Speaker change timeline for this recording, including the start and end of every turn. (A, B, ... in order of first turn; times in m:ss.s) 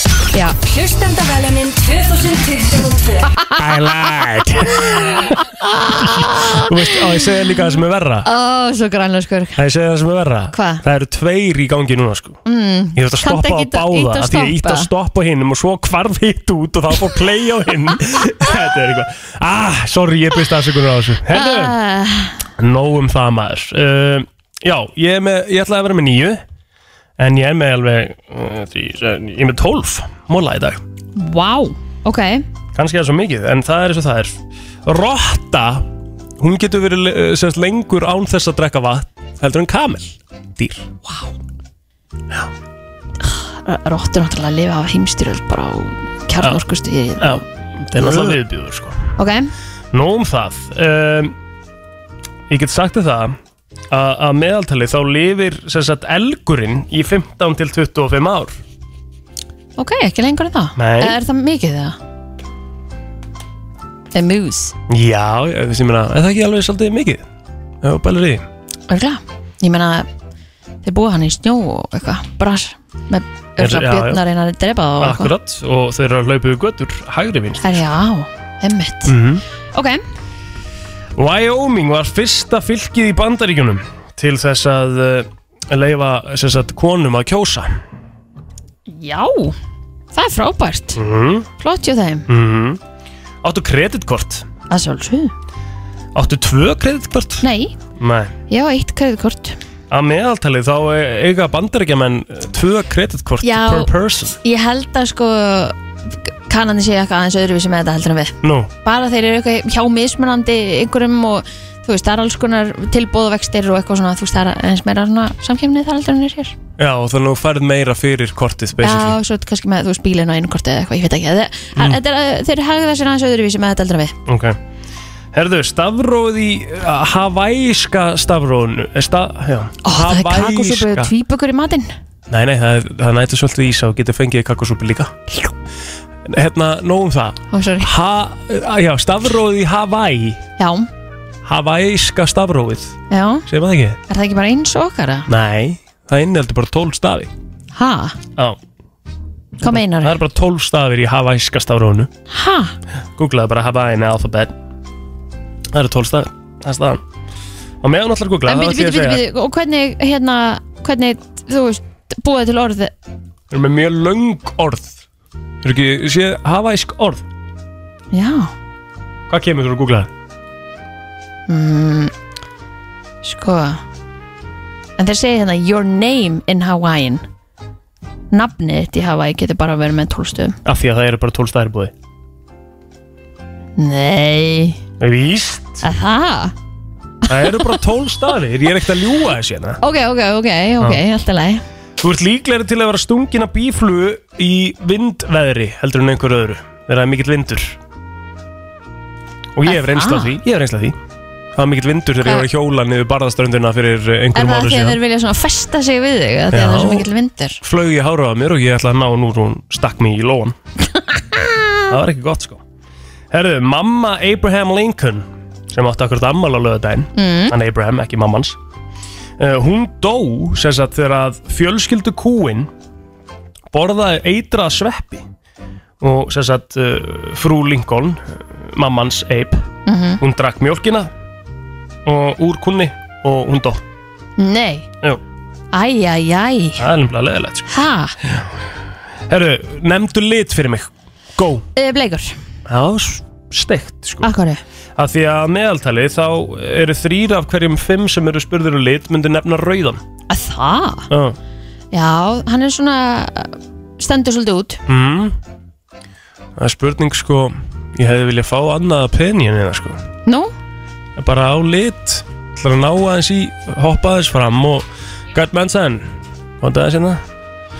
0:00.3-0:00.6 A
0:00.8-0:03.1 B
0:03.6-0:05.4 C
0:05.3-0:06.8 A
0:06.0-0:08.3 C
0:08.2-0:09.6 A
0:09.6-0:12.4 C
0:10.5-0:10.8 A
0:12.4-0:14.9 A
0:13.0-0:21.8 C
0:21.3-0:22.4 A
0:22.6-0:26.4 C
0:27.2-0:30.8 C
0:31.2-0:32.4 A
0:32.8-0:34.4 C
0:34.9-0:35.9 C
0:36.4-0:40.9 C
0:41.0-0:41.3 A
0:43.2-0:47.4 A
0:47.2-0:49.0 C
0:48.0-0:48.4 A
0:49.2-0:49.5 A
0:49.9-0:51.3 C
0:52.5-0:53.4 C
0:53.9-0:58.6 C
0:59.8-1:02.0 A
1:00.8-1:01.2 C
1:04.1-1:04.7 A
1:04.9-1:07.2 C
1:07.8-1:08.4 C
1:08.9-1:10.1 A
1:10.8-1:15.3 A
1:13.6-1:14.2 C
1:15.0-1:17.6 C
1:17.6-1:19.2 A
1:19.1-1:19.4 C
1:19.7-1:20.0 A
1:21.2-1:27.8 C
1:28.9-1:29.6 A
1:30.1-1:31.0 A
1:31.0-1:31.5 C
1:31.6-1:32.2 A
1:32.3-1:32.8 C
1:33.4-1:34.4 C
1:34.7-1:35.3 A
1:36.2-1:37.4 C
1:37.4-1:37.8 A
1:38.0-1:38.3 C
1:38.5-1:39.6 A
1:39.9-1:44.4 C
1:43.4-1:56.6 A
1:48.4-1:48.7 C
1:56.8-1:59.2 C
1:58.8-2:04.2 A
2:04.3-2:04.6 C
2:05.3-2:11.1 C
2:09.8-2:11.9 A
2:12.3-2:15.2 C
2:16.3-2:20.4 C
2:17.5-2:17.9 A
2:20.6-2:20.9 A
2:21.4-2:24.0 C
2:23.1-2:23.4 A
2:24.1-2:25.3 A
2:25.3-2:27.3 C
2:27.8-2:28.2 A
2:29.6-2:30.1 A
2:29.7-2:32.1 C
2:32.3-2:32.8 A
2:33.2-2:34.5 C
2:35.7-2:37.0 C
2:37.8-2:39.2 C
2:38.5-2:42.9 A
2:43.5-2:45.0 C
2:45.6-2:47.2 C
2:48.1-2:48.5 A
2:49.3-2:50.1 C
2:51.5-2:52.1 A
2:53.2-2:53.8 A
2:55.0-2:57.2 A
2:58.3-3:00.6 A
3:00.6-3:01.9 C
3:03.8-3:04.8 A
3:05.0-3:05.8 C
3:05.8-3:06.5 A
3:07.3-3:09.8 C
3:09.8-3:11.6 A
3:12.0-3:17.8 C
3:19.6-3:21.0 C
3:19.6-3:20.4 A
3:21.6-3:25.0 C
3:24.4-3:27.6 A
3:26.5-3:27.1 C
3:27.6-3:30.6 C
3:31.1-3:31.8 A
3:31.9-3:32.6 C
3:33.3-3:38.6 C
3:37.2-3:37.5 A
3:39.4-3:42.7 C
3:43.7-3:45.2 C
3:46.0-3:49.6 C
3:49.9-3:50.2 A
3:50.2-3:51.1 C
3:52.1-3:53.8 C
3:54.4-3:54.9 A
3:55.7-3:56.8 A
3:56.8-3:57.7 C
3:57.7-3:58.2 A
3:59.3-4:01.6 C
4:01.8-4:02.4 A
4:02.7-4:04.3 C
4:04.2-4:04.6 A
4:05.0-4:10.0 C
4:10.3-4:11.1 A
4:11.1-4:11.4 C
4:11.9-4:14.8 A
4:14.9-4:15.4 C
4:16.6-4:20.0 C
4:20.3-4:20.5 A
4:21.2-4:26.1 C
4:26.6-4:27.2 C